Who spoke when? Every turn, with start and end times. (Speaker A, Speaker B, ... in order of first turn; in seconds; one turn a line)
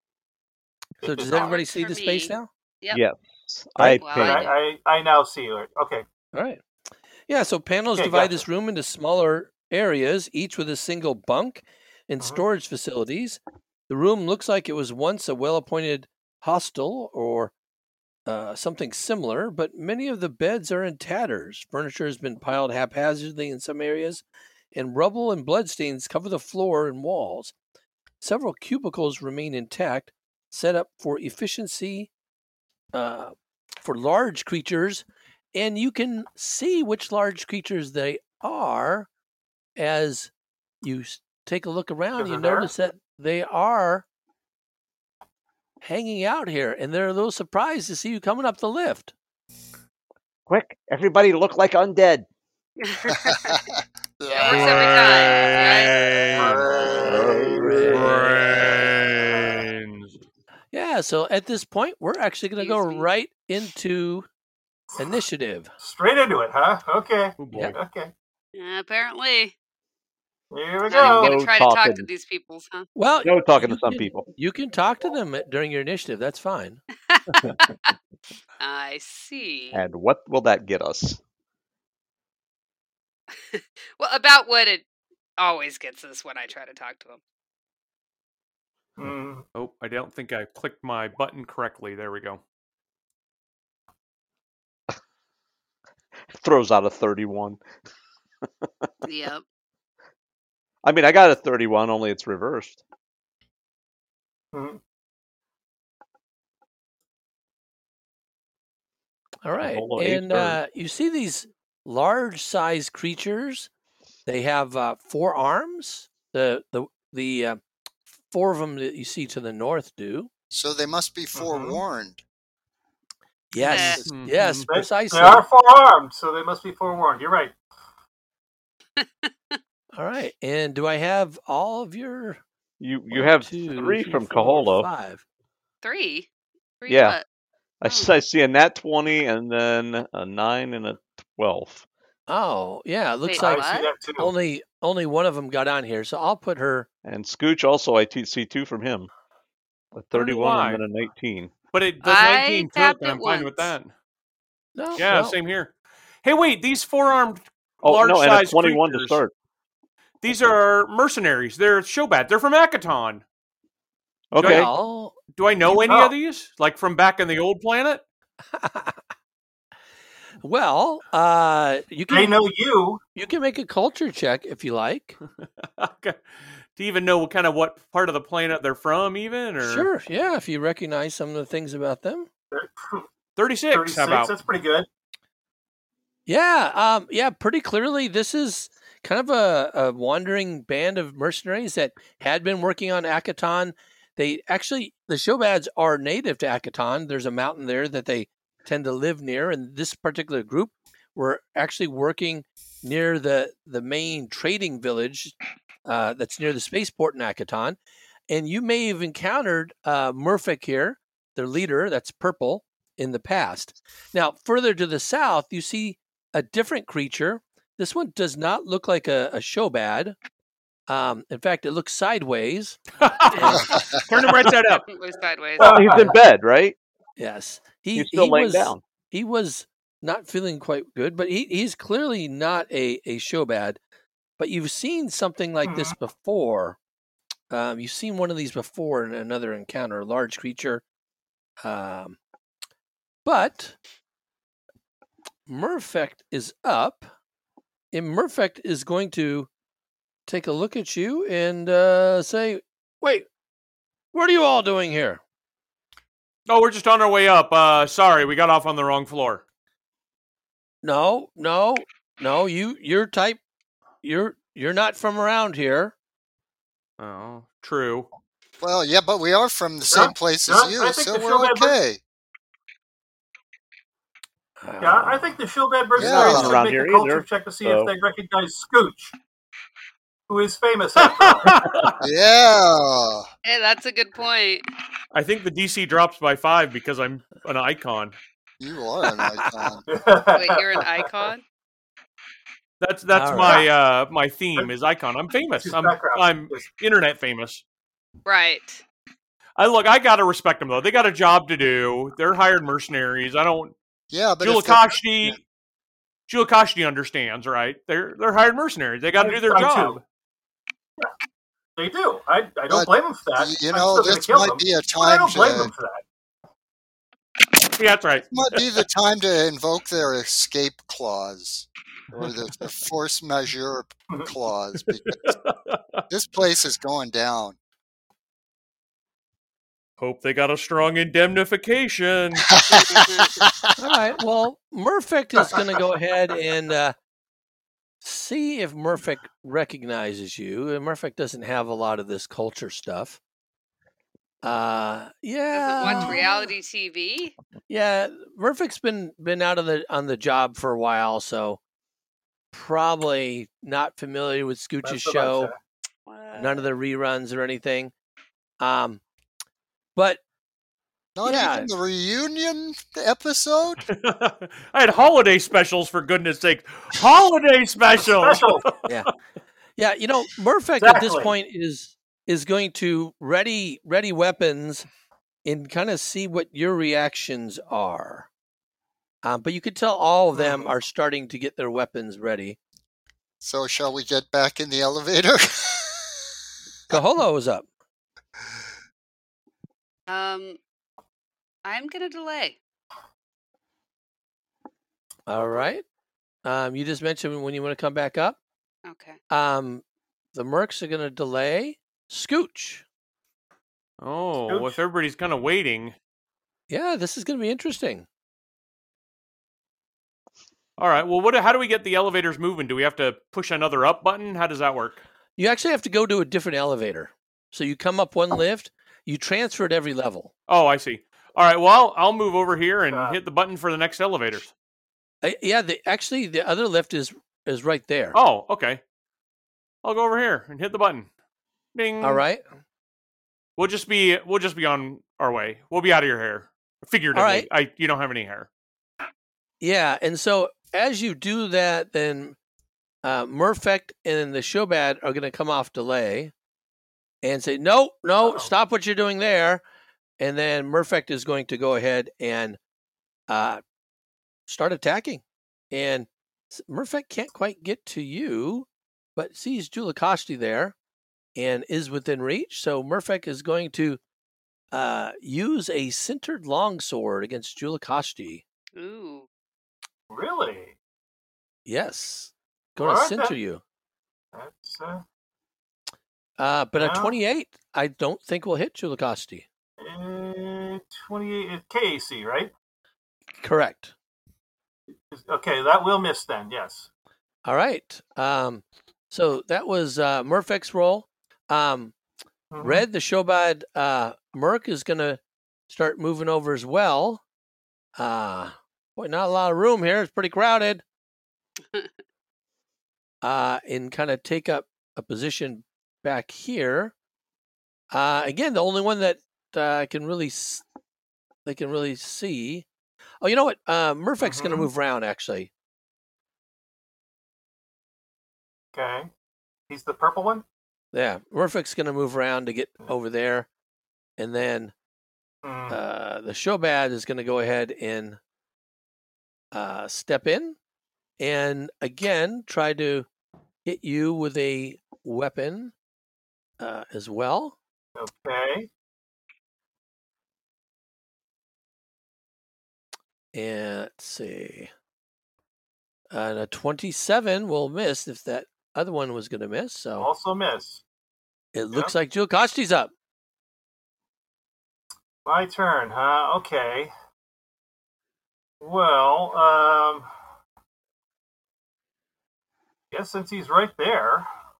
Speaker A: 1.0-1.6
Speaker B: 1.0-2.5
Speaker C: 1.2-3.0
Speaker D: 2.9-4.5
Speaker C: 4.0-4.5
Speaker A: 4.2-6.0
Speaker B: 6.3-6.6
Speaker B: 7.3-17.5
Speaker A: 7.9-8.4
Speaker B: 18.3-27.5
Speaker B: 28.2-32.1
Speaker B: 32.9-39.1
Speaker B: 39.8-44.0
Speaker A: 42.2-42.7
Speaker B: 45.8-49.1
Speaker D: 50.5-52.3
Speaker C: 52.8-53.6
Speaker E: 53.1-53.6
Speaker E: 54.2-55.2
Speaker C: 54.3-56.0
Speaker F: 54.4-56.7
Speaker A: 56.4-57.6
Speaker E: 56.4-57.8
Speaker D: 57.0-58.1
Speaker B: 57.5-58.4
Speaker F: 57.8-60.2
Speaker B: 60.7-64.3
Speaker C: 62.6-63.1
Speaker B: 65.0-65.7
Speaker A: 65.8-68.1
Speaker F: 67.4-67.8
Speaker C: 68.5-69.5
Speaker A: 70.5-71.4
Speaker C: 70.9-72.9
Speaker D: 71.0-72.1
Speaker B: 73.0-76.8
Speaker D: 73.2-74.3
Speaker C: 77.1-77.9
Speaker C: 78.6-79.8
Speaker D: 79.7-81.2
Speaker C: 83.5-84.8
Speaker C: 85.4-87.2
Speaker A: 89.0-89.4
Speaker F: 89.6-92.4
Speaker D: 96.4-97.6
Speaker C: 99.0-99.4
Speaker D: 100.8-102.8
Speaker A: 104.5-104.8
Speaker B: 109.4-113.7
Speaker D: 109.6-110.6
Speaker B: 114.3-117.6
Speaker B: 118.3-120.3
Speaker E: 120.5-122.2
Speaker A: 121.3-121.8
Speaker B: 123.5-125.5
Speaker C: 123.6-124.0
Speaker F: 123.8-124.7
Speaker A: 124.7-127.5
Speaker C: 129.0-129.6
Speaker B: 129.9-132.4
Speaker D: 132.8-134.9
Speaker B: 133.1-135.2
Speaker C: 135.8-136.3
Speaker C: 136.8-137.3
Speaker D: 136.9-137.2
Speaker D: 137.8-141.8
Speaker C: 137.8-138.1
Speaker B: 142.3-143.7
Speaker C: 143.2-143.9
Speaker A: 143.4-144.3
Speaker B: 144.2-146.9
Speaker D: 147.0-149.1
Speaker D: 149.9-151.5
Speaker F: 150.1-150.8
Speaker F: 151.7-153.9
Speaker C: 152.0-153.7
Speaker B: 154.8-155.4
Speaker F: 155.0-155.7
Speaker F: 156.2-159.2
Speaker D: 157.8-159.3
Speaker F: 160.2-163.2
Speaker D: 164.3-164.7
Speaker F: 164.4-164.7
Speaker B: 164.4-165.2
Speaker F: 165.3-168.0
Speaker A: 165.7-166.1
Speaker B: 168.5-169.0
Speaker B: 170.4-172.4
Speaker A: 172.1-173.0
Speaker B: 173.2-175.2
Speaker F: 175.6-176.2
Speaker F: 176.8-179.9
Speaker B: 179.6-182.3
Speaker A: 182.5-183.1
Speaker F: 183.4-184.3
Speaker A: 183.7-184.9
Speaker B: 186.3-207.8
Speaker B: 208.3-220.2
Speaker B: 220.9-222.8
Speaker F: 223.0-224.8
Speaker C: 223.3-223.9
Speaker B: 223.3-223.8
Speaker C: 224.7-225.8
Speaker A: 225.6-226.2
Speaker D: 225.6-226.8
Speaker B: 227.2-233.8
Speaker D: 227.9-228.8
Speaker B: 234.4-236.8
Speaker A: 235.6-236.0
Speaker B: 237.5-240.8
Speaker B: 241.6-242.2
Speaker B: 243.2-243.8
Speaker B: 245.5-247.1
Speaker B: 247.9-249.5
Speaker B: 250.3-253.3
Speaker B: 254.1-255.2
Speaker F: 256.5-259.4
Speaker B: 260.8-263.4
Speaker B: 264.0-265.9
Speaker F: 267.0-268.1
Speaker E: 268.6-272.0
Speaker A: 269.9-271.8
Speaker B: 274.6-275.3
Speaker A: 274.8-279.1
Speaker E: 276.0-276.6
Speaker D: 276.0-277.9
Speaker A: 280.3-281.6
Speaker F: 281.0-282.0
Speaker E: 282.0-283.3
Speaker C: 283.4-284.7
Speaker F: 285.1-288.2
Speaker E: 288.6-289.9
Speaker B: 289.2-289.5
Speaker A: 289.9-291.0
Speaker C: 290.3-291.4
Speaker F: 292.8-297.6
Speaker B: 293.1-293.7
Speaker A: 295.6-296.7
Speaker C: 298.3-298.8
Speaker F: 299.6-303.8
Speaker E: 304.1-305.4
Speaker F: 304.4-305.4
Speaker F: 306.3-310.0
Speaker A: 309.2-310.0
Speaker A: 311.8-316.0
Speaker E: 312.7-315.7
Speaker F: 317.8-318.8
Speaker E: 318.3-325.2
Speaker F: 325.1-325.8
Speaker E: 326.1-327.6
Speaker F: 330.0-332.8
Speaker E: 332.7-333.7
Speaker C: 332.8-333.4
Speaker B: 333.8-336.9
Speaker B: 338.0-343.2
Speaker B: 344.4-346.2
Speaker C: 345.5-347.4
Speaker A: 345.8-346.3
Speaker B: 347.7-351.6
Speaker B: 352.5-355.5
Speaker A: 354.8-355.6
Speaker C: 356.1-356.7
Speaker B: 356.4-357.9
Speaker B: 358.6-359.0
Speaker B: 360.0-360.2
Speaker E: 361.2-363.9
Speaker B: 361.2-361.7
Speaker F: 363.9-368.9
Speaker A: 368.0-368.7
Speaker B: 369.8-374.9
Speaker A: 370.8-371.4
Speaker B: 375.4-378.3
Speaker B: 379.2-382.6
Speaker A: 380.3-380.7
Speaker E: 383.4-386.2
Speaker B: 386.9-387.7
Speaker C: 390.1-390.6
Speaker C: 391.6-392.6
Speaker B: 395.3-395.8
Speaker B: 396.4-398.4
Speaker C: 398.9-399.2
Speaker B: 399.3-399.8
Speaker B: 400.3-402.9
Speaker F: 404.0-405.9
Speaker A: 404.5-404.8
Speaker B: 406.7-408.1
Speaker F: 410.8-415.0
Speaker B: 415.4-420.3
Speaker F: 420.5-424.5
Speaker A: 422.9-423.2
Speaker B: 425.2-428.2
Speaker F: 428.1-428.8
Speaker F: 429.8-431.1
Speaker F: 431.8-432.2
Speaker B: 432.0-432.4
Speaker F: 433.6-438.5
Speaker B: 437.1-437.5
Speaker B: 439.6-442.4
Speaker B: 443.0-446.3
Speaker B: 447.2-449.6
Speaker A: 448.2-448.5
Speaker B: 450.2-452.6
Speaker B: 453.3-453.6
Speaker B: 454.5-460.8
Speaker B: 461.4-464.0
Speaker B: 464.7-468.4
Speaker C: 468.8-469.3
Speaker A: 470.1-470.8
Speaker B: 471.7-473.6
Speaker A: 472.8-473.4
Speaker A: 474.3-475.0
Speaker B: 476.4-479.5
Speaker A: 476.8-477.2
Speaker A: 479.8-482.5
Speaker B: 483.4-483.9
Speaker A: 485.1-486.9
Speaker B: 487.4-491.9
Speaker A: 492.5-492.9
Speaker B: 492.6-497.2
Speaker B: 498.0-500.8
Speaker B: 503.2-506.9
Speaker B: 507.9-510.6
Speaker B: 511.5-512.7
Speaker B: 513.2-515.5
Speaker A: 514.2-514.7
Speaker A: 518.7-519.1
Speaker A: 519.7-520.5
Speaker B: 520.9-523.5
Speaker B: 524.2-524.7
Speaker A: 525.4-525.8
Speaker B: 525.7-528.2
Speaker B: 529.5-530.6
Speaker B: 531.2-533.1
Speaker B: 533.6-535.7
Speaker B: 536.6-537.6
Speaker A: 538.0-538.7
Speaker B: 543.3-544.7
Speaker B: 546.1-550.1
Speaker A: 550.0-550.8
Speaker B: 551.5-552.9
Speaker A: 555.2-556.9
Speaker A: 558.6-560.1
Speaker A: 562.9-564.3